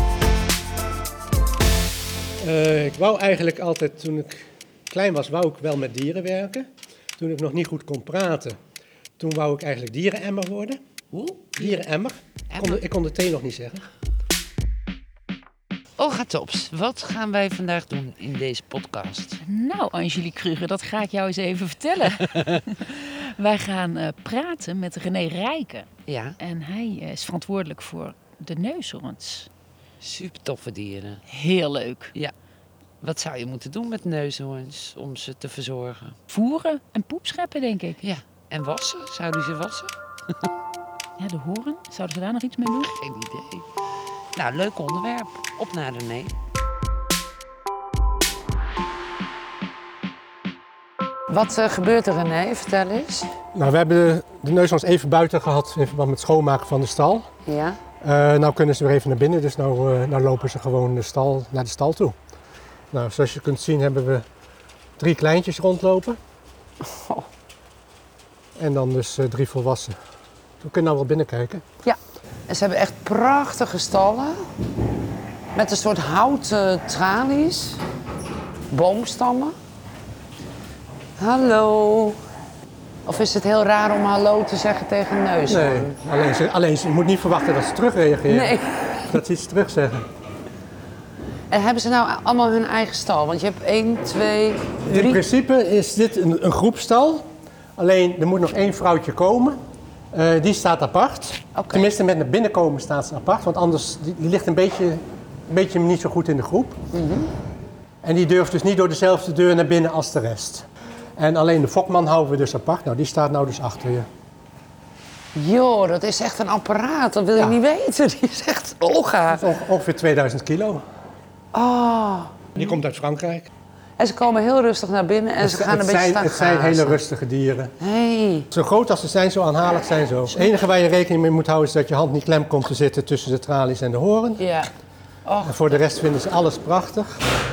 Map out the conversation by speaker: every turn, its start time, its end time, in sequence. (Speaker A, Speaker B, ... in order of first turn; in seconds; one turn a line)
Speaker A: 2.4-6.7
Speaker A: 7.2-8.6
Speaker A: 9.2-10.8
Speaker B: 11.1-11.8
Speaker A: 11.6-13.8
Speaker B: 12.5-12.8
Speaker B: 16.0-19.4
Speaker C: 19.4-25.9
Speaker B: 26.1-26.4
Speaker C: 26.4-29.5
Speaker B: 30.0-31.2
Speaker C: 31.3-32.1
Speaker B: 33.0-36.2
Speaker C: 36.3-38.0
Speaker B: 38.0-39.9
Speaker C: 41.2-42.9
Speaker B: 42.6-43.7
Speaker B: 44.3-46.4
Speaker B: 51.3-53.4
Speaker A: 53.5-57.3
Speaker B: 57.4-57.8
Speaker A: 58.0-62.1
Speaker A: 62.9-64.2
Speaker A: 65.0-66.2
Speaker B: 66.8-67.3
Speaker A: 68.6-70.0
Speaker A: 70.6-71.6
Speaker B: 71.8-74.4
Speaker B: 75.5-77.8
Speaker B: 78.7-79.5
Speaker B: 81.2-82.2
Speaker B: 83.0-86.0
Speaker A: 85.5-90.0
Speaker B: 88.2-89.2
Speaker B: 91.5-95.2
Speaker A: 94.8-97.2
Speaker A: 97.8-99.6
Speaker A: 100.1-106.8
Speaker B: 101.5-101.9
Speaker B: 106.9-107.3
Speaker A: 108.0-114.1
Speaker B: 115.3-119.5
Speaker A: 117.3-117.6
Speaker A: 119.3-120.8
Speaker B: 121.5-122.8
Speaker A: 122.5-123.5
Speaker B: 124.0-127.0
Speaker A: 125.4-127.7
Speaker B: 127.8-128.5
Speaker A: 128.5-134.4
Speaker B: 134.4-134.7
Speaker B: 135.2-135.8
Speaker A: 135.4-137.2